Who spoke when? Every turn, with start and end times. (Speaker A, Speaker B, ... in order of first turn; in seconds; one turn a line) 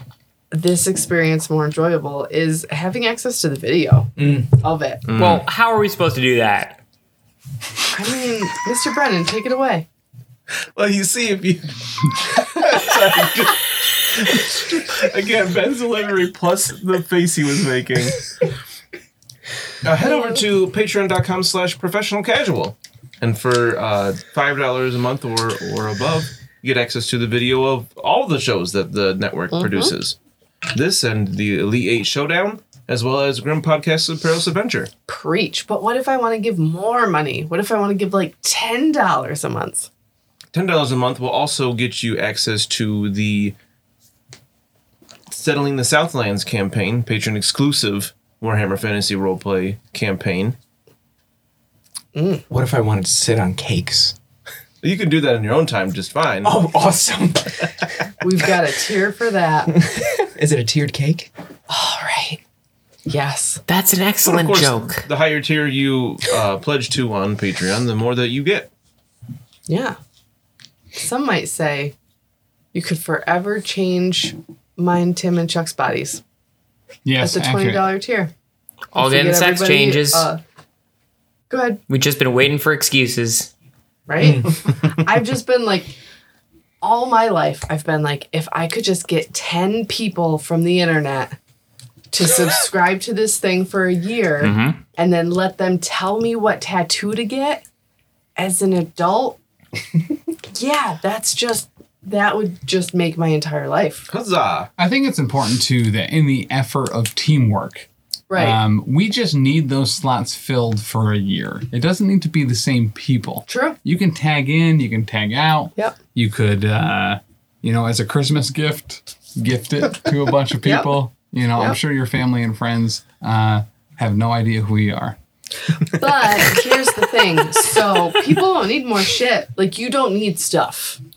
Speaker A: 0.5-5.0
Speaker B: 4.2-4.5
Speaker C: 5.1-5.5
Speaker D: 5.1-6.8
Speaker A: 7.9-9.9
Speaker C: 10.8-18.3
Speaker C: 19.8-30.2
Speaker A: 20.0-20.4
Speaker A: 29.5-29.9
Speaker C: 30.7-34.9
Speaker A: 35.1-39.9
Speaker C: 40.5-43.5
Speaker C: 45.3-50.6
Speaker A: 52.1-52.5
Speaker B: 52.5-54.1
Speaker C: 54.8-56.5
Speaker B: 56.4-57.9
Speaker A: 58.2-59.8
Speaker B: 59.8-61.3
Speaker A: 61.7-62.4
Speaker A: 63.1-63.6
Speaker D: 63.7-65.1
Speaker C: 64.2-68.7
Speaker A: 69.7-70.0
Speaker A: 71.0-72.0
Speaker A: 72.7-76.2
Speaker E: 77.0-77.9
Speaker A: 77.2-78.3
Speaker A: 78.9-80.4
Speaker D: 79.0-80.3
Speaker A: 81.5-81.8
Speaker D: 81.9-83.5
Speaker A: 84.1-86.0
Speaker A: 86.8-91.4
Speaker A: 92.1-97.6
Speaker D: 94.4-94.8
Speaker A: 98.4-99.4
Speaker A: 100.5-104.1
Speaker C: 104.1-104.7
Speaker E: 104.8-125.2
Speaker A: 108.3-108.6
Speaker A: 113.5-113.8
Speaker A: 120.6-120.9
Speaker A: 125.9-131.0